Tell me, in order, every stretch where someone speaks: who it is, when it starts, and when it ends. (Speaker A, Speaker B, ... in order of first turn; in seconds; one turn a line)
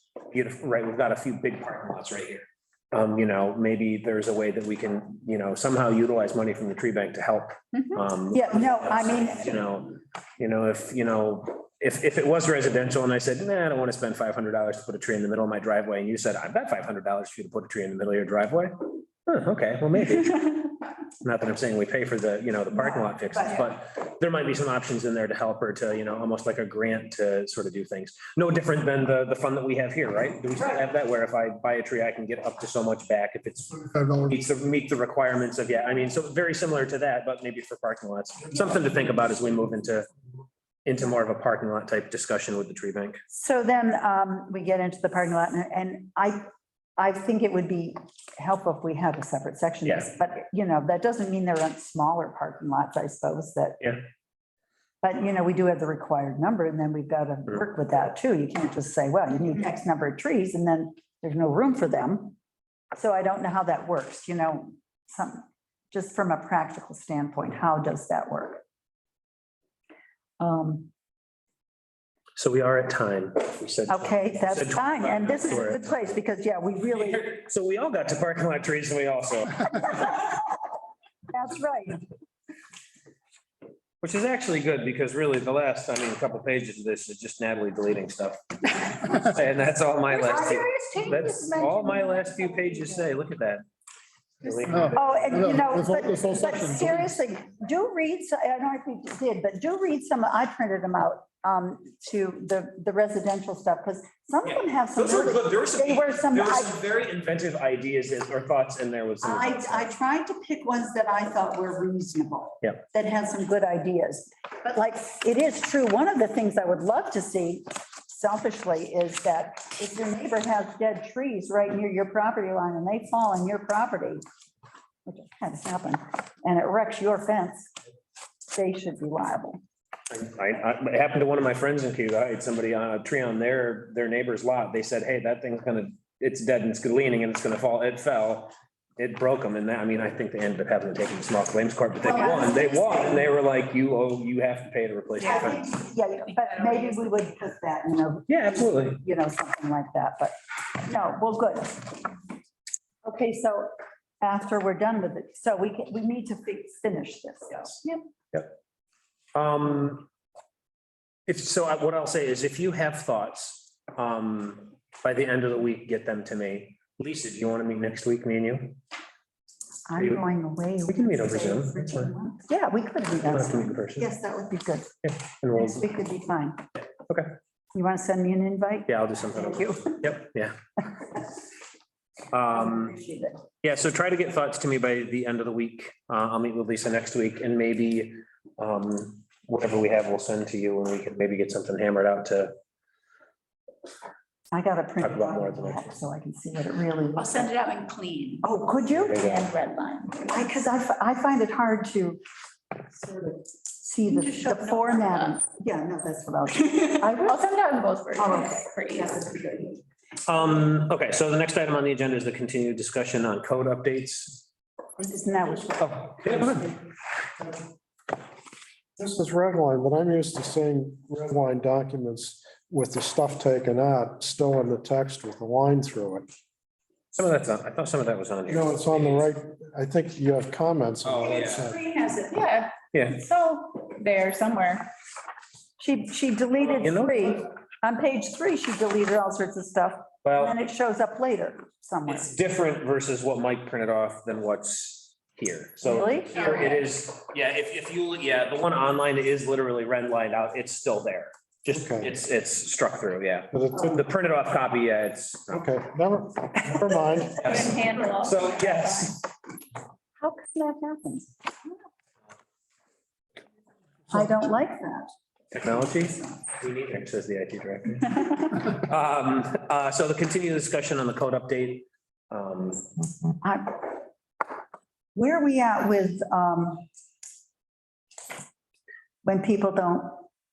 Speaker A: 0.3-20.7
Speaker B: 8.3-9.6
Speaker A: 21.2-40.1
Speaker B: 22.8-23.6
Speaker A: 40.8-43.2
Speaker B: 43.3-46.4
Speaker B: 47.0-54.0
Speaker B: 55.0-62.4
Speaker B: 62.9-68.6
Speaker B: 70.4-70.9
Speaker A: 72.4-75.9
Speaker B: 73.9-77.3
Speaker A: 77.0-80.1
Speaker B: 79.9-80.4
Speaker B: 81.3-82.0
Speaker A: 84.0-93.6
Speaker B: 90.1-93.0
Speaker A: 94.4-95.4
Speaker B: 94.9-106.7
Speaker A: 104.4-109.9
Speaker B: 109.2-124.2
Speaker B: 125.0-127.7
Speaker B: 128.5-129.6
Speaker A: 130.1-145.6
Speaker B: 142.0-143.2
Speaker B: 145.2-152.2
Speaker C: 145.3-145.5
Speaker C: 146.3-147.1
Speaker A: 148.3-149.0
Speaker B: 153.0-158.0
Speaker A: 159.3-160.1
Speaker A: 161.3-168.8
Speaker B: 169.9-174.9
Speaker A: 170.0-170.2
Speaker A: 170.8-172.1
Speaker A: 173.2-174.1
Speaker A: 175.0-175.8
Speaker B: 175.5-176.6
Speaker B: 177.7-180.1
Speaker A: 178.9-180.6
Speaker A: 182.3-182.9
Speaker B: 182.5-183.4
Speaker A: 183.6-192.6
Speaker B: 194.5-197.5
Speaker A: 195.0-195.9
Speaker C: 197.1-198.4
Speaker B: 198.4-199.2
Speaker A: 198.9-199.5
Speaker C: 199.1-200.2
Speaker B: 200.2-202.2
Speaker B: 202.8-207.5
Speaker C: 204.1-205.4
Speaker C: 206.9-209.1
Speaker B: 208.2-209.8
Speaker A: 210.2-214.5
Speaker B: 215.0-216.6
Speaker A: 215.8-216.7
Speaker D: 219.0-226.3
Speaker A: 227.1-229.3
Speaker D: 228.5-231.8
Speaker A: 231.0-231.7
Speaker C: 231.6-234.9
Speaker A: 232.9-233.2
Speaker B: 235.8-242.3
Speaker A: 236.8-237.3
Speaker A: 240.2-240.6
Speaker A: 242.1-255.6
Speaker B: 245.8-246.5
Speaker D: 251.7-252.1
Speaker D: 253.5-254.0
Speaker D: 255.5-257.6
Speaker C: 257.4-259.1
Speaker A: 257.4-259.3
Speaker B: 260.2-261.3
Speaker B: 264.1-265.1
Speaker A: 265.5-272.9
Speaker B: 273.4-273.9
Speaker B: 275.1-276.9
Speaker B: 279.2-280.2